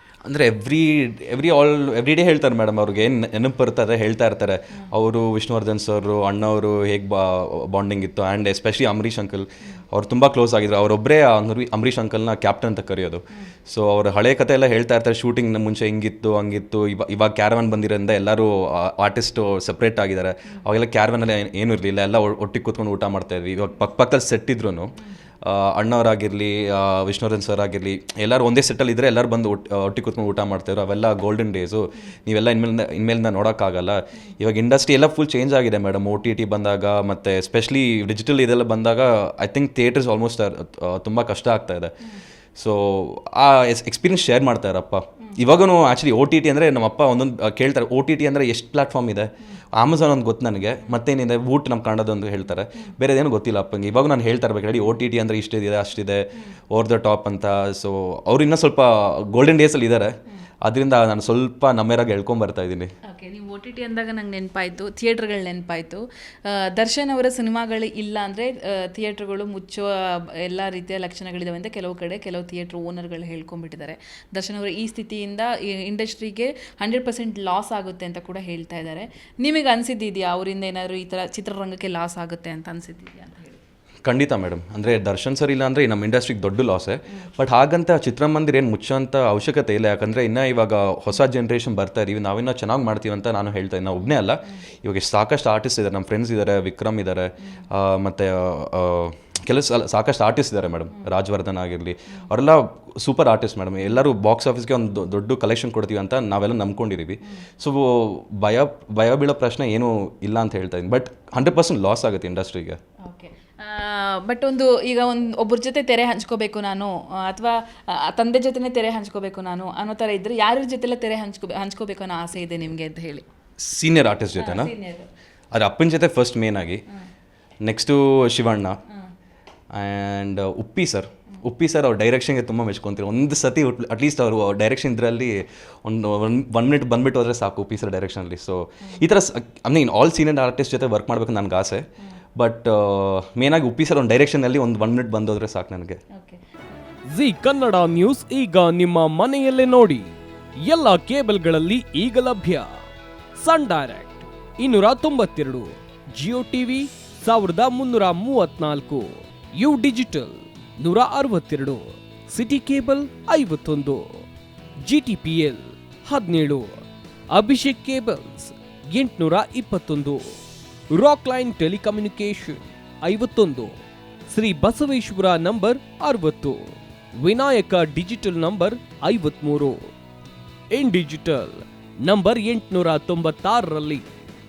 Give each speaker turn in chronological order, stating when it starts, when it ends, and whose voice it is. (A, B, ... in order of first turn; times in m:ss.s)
0:00.2-0:41.9 A
0:42.6-1:02.9 A
1:03.1-1:23.6 B
1:24.0-1:52.8 A
1:53.0-2:03.2 B
2:03.6-2:04.7 A
2:04.4-2:05.1 B
2:05.5-2:06.8 A
2:07.6-2:08.8 A
2:09.7-2:21.8 A
2:22.4-2:26.0 A
2:26.1-2:26.4 B
2:27.1-2:30.1 C
2:30.6-2:32.7 C
2:33.4-2:44.2 C
2:44.8-2:50.3 C
2:50.9-2:59.9 C
3:00.7-3:04.1 C